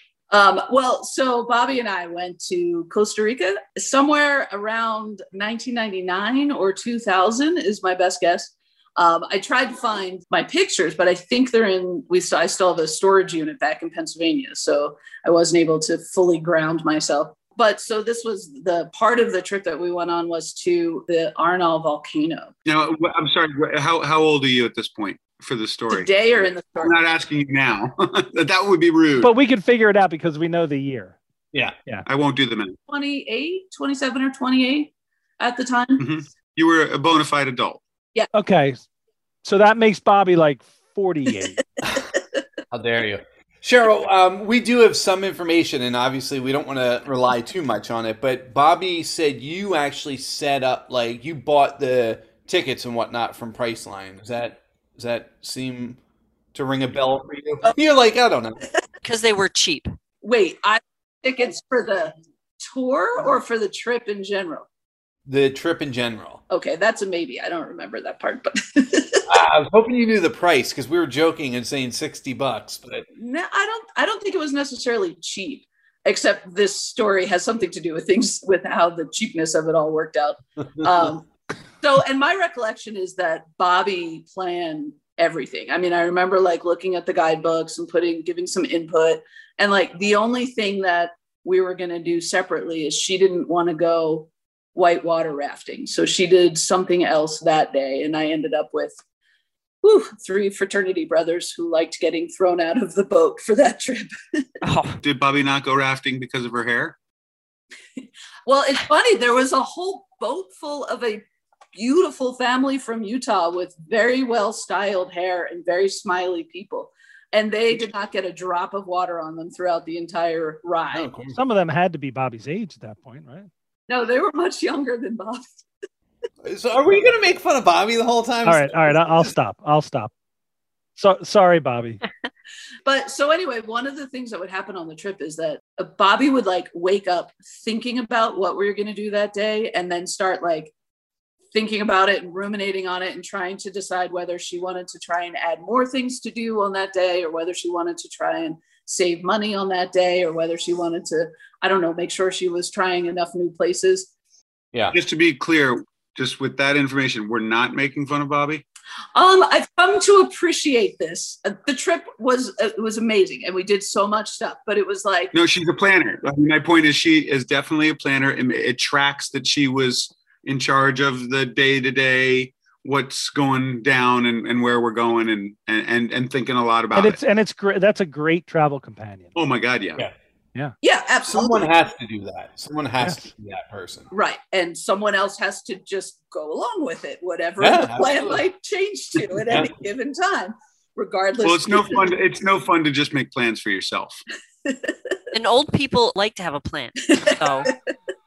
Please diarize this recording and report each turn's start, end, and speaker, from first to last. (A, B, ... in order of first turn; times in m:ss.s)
0:00.3-0:22.5 A
0:22.7-0:26.1 B
0:25.9-0:27.0 A
0:26.8-0:29.3 B
0:29.2-0:31.2 C
0:32.1-0:32.8 B
0:32.9-0:36.0 A
0:36.0-0:37.8 B
0:38.3-0:38.8 C
0:39.4-0:41.6 C
0:42.7-0:56.0 D
0:56.5-0:58.6 D
0:59.0-0:59.9 E
1:00.2-1:04.7 A
1:05.3-1:06.4 D
1:06.5-1:09.3 A
1:09.3-1:13.1 D
1:13.2-1:21.3 A
1:21.8-1:39.0 A
1:39.8-1:44.5 A
1:44.6-1:45.0 E
1:45.0-1:47.0 B
1:48.0-2:01.1 A
2:00.9-2:01.4 D
2:01.3-2:03.5 C
2:03.9-2:05.6 A
2:06.4-2:09.3 D
2:08.4-2:10.1 C
2:11.0-2:12.0 C
2:12.9-2:20.7 A
2:21.5-2:34.1 A
2:34.9-2:38.6 B
2:39.2-2:45.3 A
2:45.3-2:57.2 B
2:56.9-2:59.4 C
2:59.4-3:00.0 B
3:00.8-3:01.7 A
3:01.3-3:04.1 D
3:04.1-3:12.1 A
3:07.6-3:08.4 D
3:09.4-3:09.7 D
3:11.4-3:14.2 B
3:14.6-3:14.9 A
3:15.3-3:17.7 E
3:17.1-3:17.7 A